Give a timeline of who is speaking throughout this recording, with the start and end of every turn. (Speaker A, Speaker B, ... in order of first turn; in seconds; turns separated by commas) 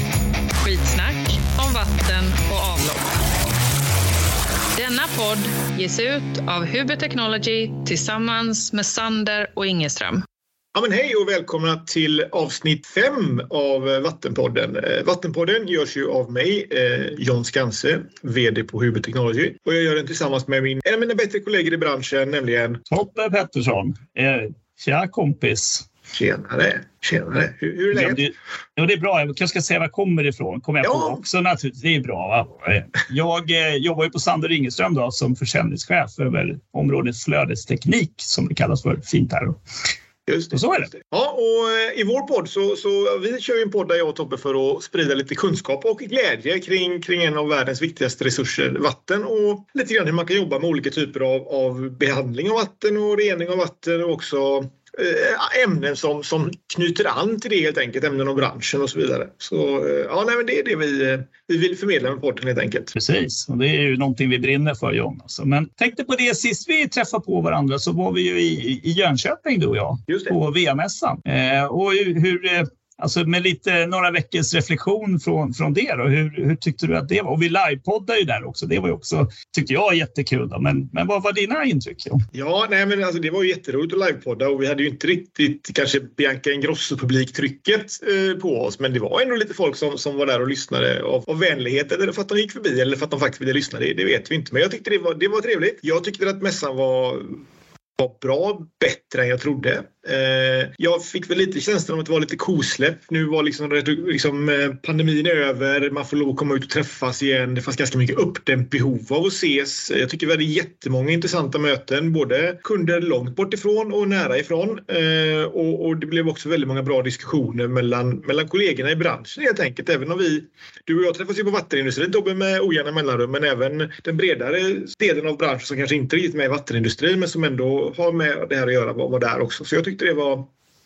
Speaker A: 0.6-3.1, Speaker A: 4.8-10.2, Speaker B: 10.7-22.8, Speaker C: 22.9-25.9, Speaker B: 26.1-28.2, Speaker C: 27.9-39.6, Speaker B: 30.8-31.2, Speaker B: 40.3-62.9, Speaker C: 40.5-40.9, Speaker C: 62.9-82.2, Speaker B: 70.1-70.3, Speaker B: 82.3-97.4, Speaker B: 98.0-130.5